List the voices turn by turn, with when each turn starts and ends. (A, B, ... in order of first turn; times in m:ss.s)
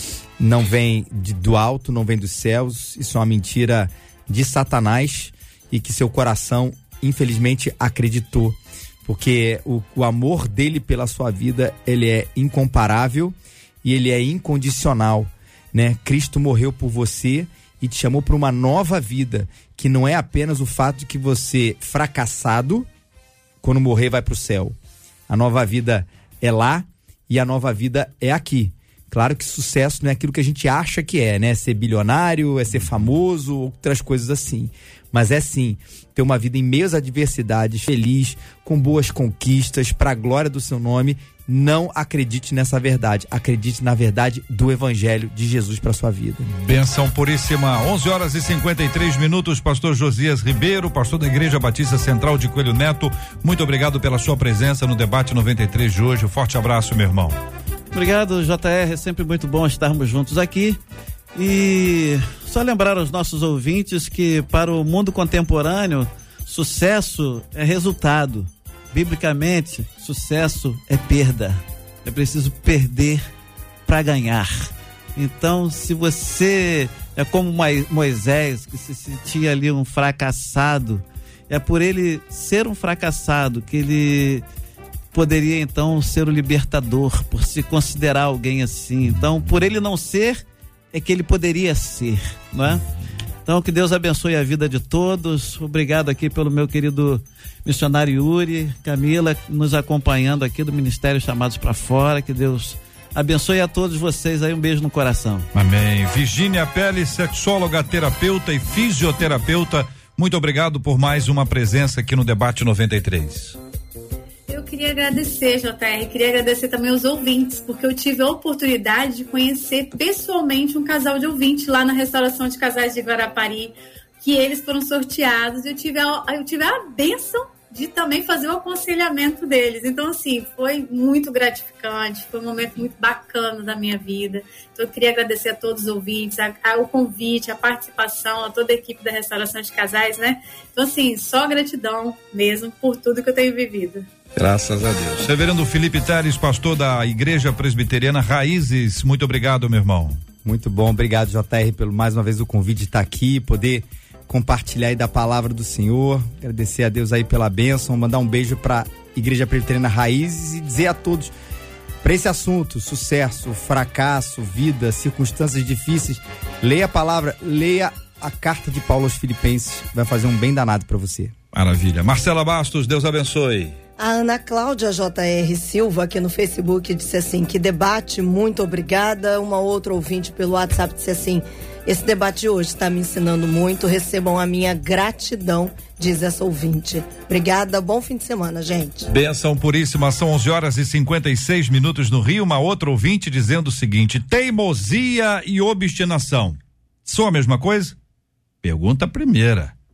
0:00.4-0:22.9 A
0:23.6-0:24.8 A
0:25.3-0:46.5 A
0:46.5-0:57.4 B
0:57.9-1:00.8 C
1:01.4-1:13.2 C
1:13.9-1:24.4 C
1:25.1-1:32.8 C
1:33.5-1:45.5 C
1:45.5-1:53.6 B
1:54.5-2:24.1 D
2:24.4-2:30.2 B
2:30.4-2:41.3 A
2:42.0-2:51.3 A
2:51.5-2:53.8 B
2:54.0-3:09.1 E
3:09.1-3:18.0 B
3:18.6-3:19.7 B